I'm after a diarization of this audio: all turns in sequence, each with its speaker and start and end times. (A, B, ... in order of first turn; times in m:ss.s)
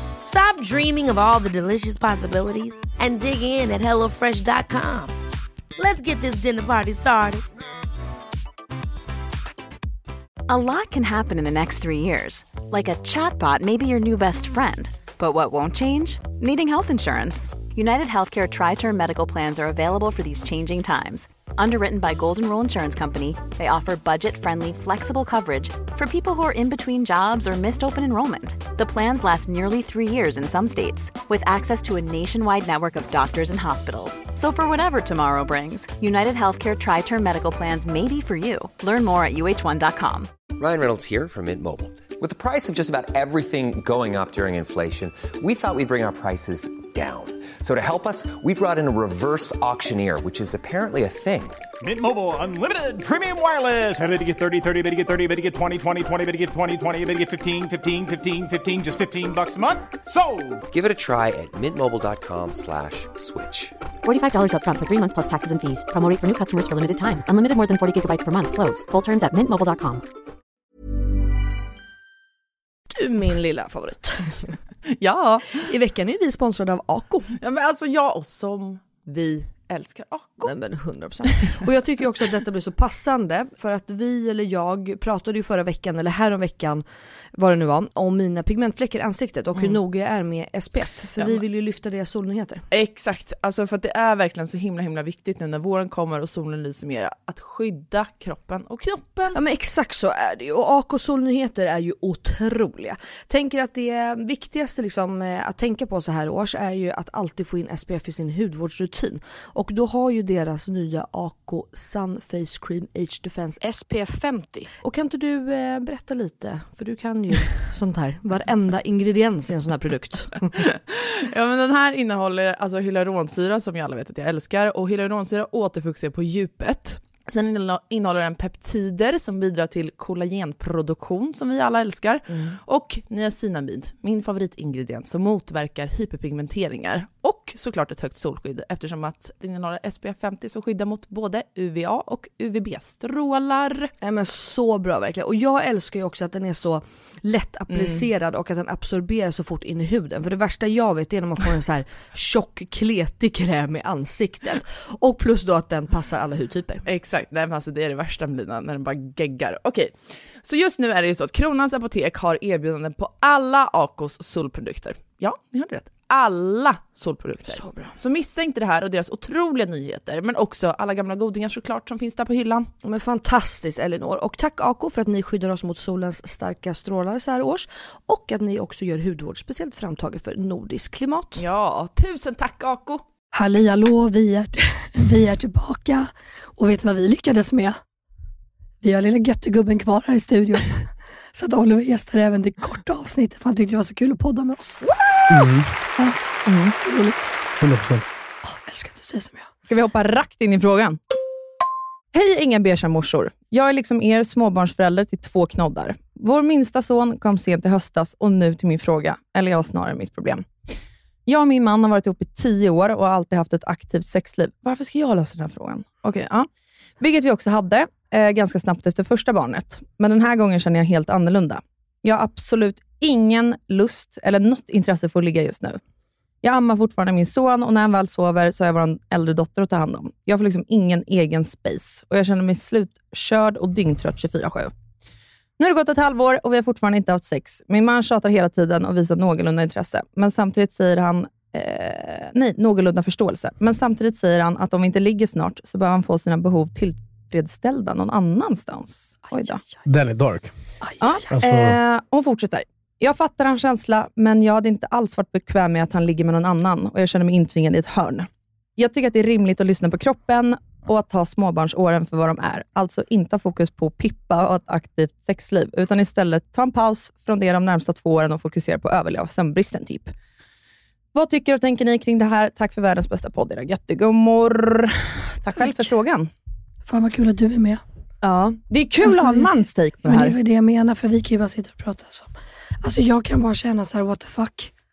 0:00.2-0:05.1 A
0:05.8-0:07.4 A
0:10.5-0:40.3 B
0:40.6-0:51.6 C
0:51.8-1:00.6 D
1:00.7-1:03.7 C
1:04.0-1:10.0 E
1:12.9-1:14.6 F
1:14.9-1:15.6 G
1:15.5-1:17.3 F
1:17.4-1:20.5 G
1:20.4-1:32.6 F
1:32.7-1:39.4 G
1:39.3-2:00.5 F
2:00.6-2:23.9 G
2:24.0-2:36.9 F
2:27.7-2:28.0 G
2:36.8-2:52.7 G
2:52.8-3:01.4 F
3:01.4-3:03.0 G
3:03.3-3:07.8 H
3:08.8-3:14.8 H
3:15.3-3:15.7 I
3:16.0-3:16.2 H
3:16.4-3:16.8 G
3:16.8-3:17.3 H
3:17.6-3:18.1 I
3:18.4-3:19.5 H
3:19.6-3:21.0 G
3:22.1-3:30.5 G
3:31.2-3:36.5 G
3:37.0-3:45.8 G
3:46.4-3:54.7 G
3:55.6-4:09.6 G
4:09.8-4:10.5 I
4:10.8-4:11.3 H
4:11.0-4:30.1 G
4:11.3-4:11.8 I
4:31.1-4:36.3 G
4:35.5-4:35.9 H
4:36.8-4:37.8 H
4:38.2-4:40.4 G
4:39.0-4:44.7 H